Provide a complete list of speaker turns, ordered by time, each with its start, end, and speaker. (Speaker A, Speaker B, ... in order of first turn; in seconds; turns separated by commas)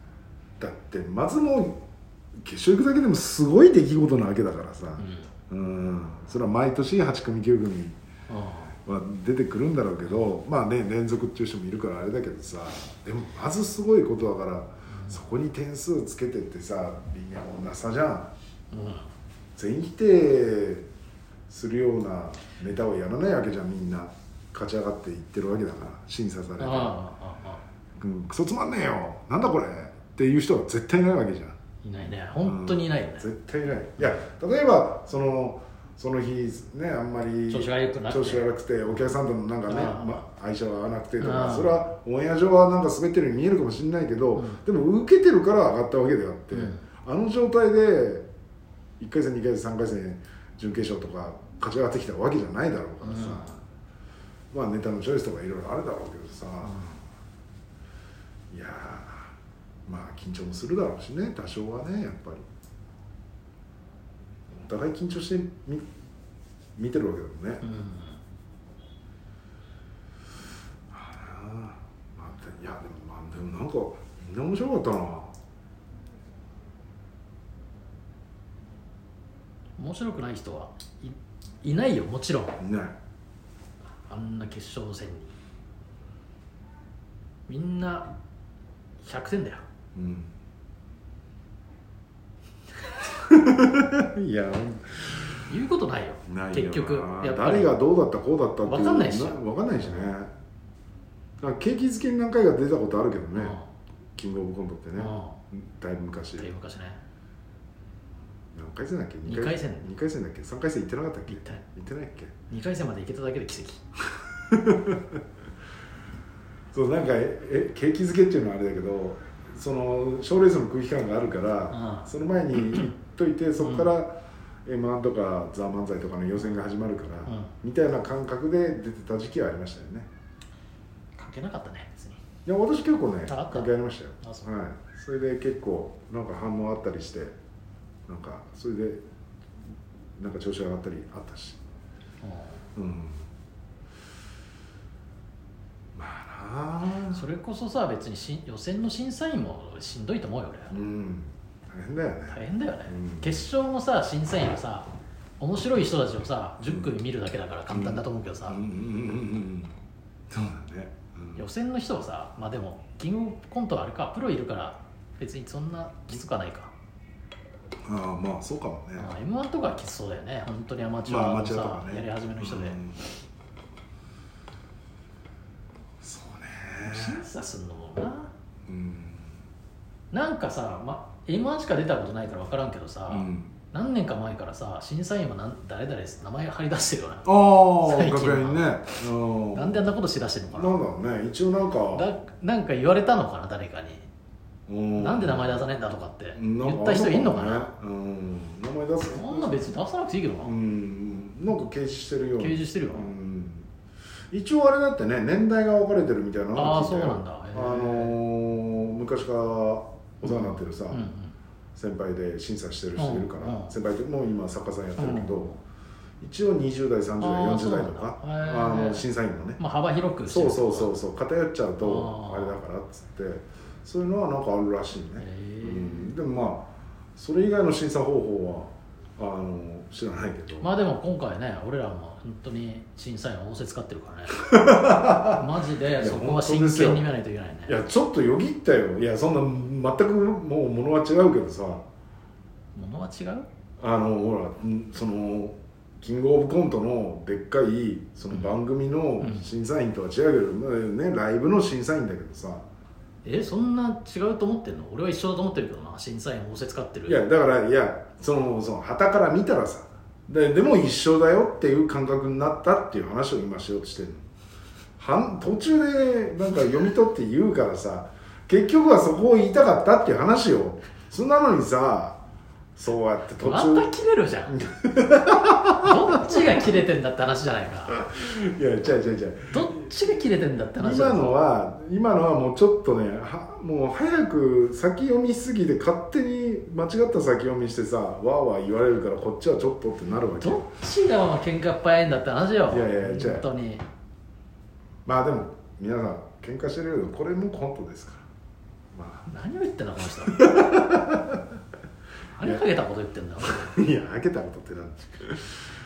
Speaker A: 0.6-1.8, Speaker A: 2.4-8.0, Speaker B: 5.0-5.3, Speaker B: 8.3-8.8, Speaker A: 8.8-18.3, Speaker B: 14.9-15.2, Speaker B: 18.7-19.1, Speaker A: 19.6-20.9, Speaker A: 21.5-27.0, Speaker B: 26.6-27.6, Speaker A: 28.0-31.6, Speaker B: 31.8-33.3, Speaker A: 32.4-48.3, Speaker B: 37.5-38.5, Speaker B: 39.7-40.2, Speaker B: 41.2-41.8, Speaker B: 44.4-44.6, Speaker B: 46.5-46.8, Speaker A: 49.0-53.5, Speaker B: 53.0-53.6, Speaker A: 54.5-56.9, Speaker B: 56.7-56.9, Speaker A: 58.5-59.3, Speaker A: 59.9-62.4, Speaker A: 64.5-65.9, Speaker A: 66.8-67.7, Speaker B: 67.6-68.2, Speaker A: 70.9-75.3, Speaker B: 79.8-82.6, Speaker A: 82.6-83.0, Speaker B: 84.1-85.3, Speaker B: 87.5-88.1, Speaker B: 89.0-89.6, Speaker A: 90.0-90.3, Speaker A: 93.2-95.5, Speaker B: 95.5-97.8, Speaker A: 96.3-100.3, Speaker B: 98.6-100.1, Speaker A: 101.4-103.6, Speaker B: 103.3-103.7, Speaker A: 104.2-106.5, Speaker B: 105.0-105.4, Speaker B: 106.4-107.0, Speaker A: 108.5-112.3, Speaker B: 109.3-109.9, Speaker B: 111.3-111.6, Speaker B: 112.5-113.8, Speaker A: 114.5-115.0, Speaker A: 116.7-130.1, Speaker B: 121.7-122.1, Speaker B: 123.6-123.9, Speaker B: 131.2-132.2, Speaker A: 132.5-137.4, Speaker B: 133.3-133.7, Speaker B: 134.2-134.5, Speaker A: 138.1-139.0, Speaker A: 140.2-141.6, Speaker B: 142.2-142.6, Speaker A: 142.8-143.3, Speaker A: 146.0-147.2, Speaker B: 147.1-150.7, Speaker A: 150.7-153.4, Speaker B: 152.3-158.6, Speaker A: 156.7-156.9, Speaker A: 157.7-159.8, Speaker A: 160.3-161.4, Speaker B: 161.3-166.7, Speaker A: 167.8-169.2, Speaker B: 169.0-172.8, Speaker A: 171.1-173.1, Speaker A: 176.0-177.2, Speaker B: 176.8-178.3, Speaker A: 178.7-179.3, Speaker B: 180.1-188.7, Speaker A: 183.1-183.6, Speaker A: 187.2-189.8, Speaker B: 189.5-190.8, Speaker A: 190.5-192.1, Speaker B: 191.9-194.1, Speaker A: 194.7-195.7, Speaker B: 195.0-197.7, Speaker A: 196.4-199.5, Speaker B: 199.1-200.5, Speaker A: 200.4-203.7, Speaker B: 202.4-203.1, Speaker A: 204.3-211.0, Speaker B: 206.5-208.2, Speaker B: 210.2-211.3, Speaker A: 211.8-215.6, Speaker B: 213.0-213.7, Speaker B: 215.0-215.6, Speaker A: 216.2-219.6, Speaker B: 217.2-219.1, Speaker B: 219.6-220.9, Speaker A: 220.3-230.7, Speaker B: 221.8-222.6, Speaker B: 225.2-226.2, Speaker B: 230.6-237.8, Speaker A: 234.3-235.4, Speaker A: 236.0-237.1, Speaker A: 237.7-241.8, Speaker B: 242.8-243.5, Speaker A: 243.8-252.6, Speaker B: 249.2-249.5, Speaker B: 253.2-257.2, Speaker A: 257.1-264.2, Speaker A: 265.0-272.2, Speaker A: 272.8-273.9, Speaker B: 273.4-274.6, Speaker A: 274.5-276.7, Speaker B: 275.8-277.9, Speaker A: 277.9-279.9, Speaker B: 279.5-281.4, Speaker A: 280.8-290.7, Speaker B: 290.4-293.9, Speaker A: 292.7-293.5, Speaker A: 295.1-298.3, Speaker A: 298.9-299.3, Speaker B: 299.3-300.5, Speaker A: 300.3-301.4, Speaker B: 302.4-303.7, Speaker A: 303.4-305.6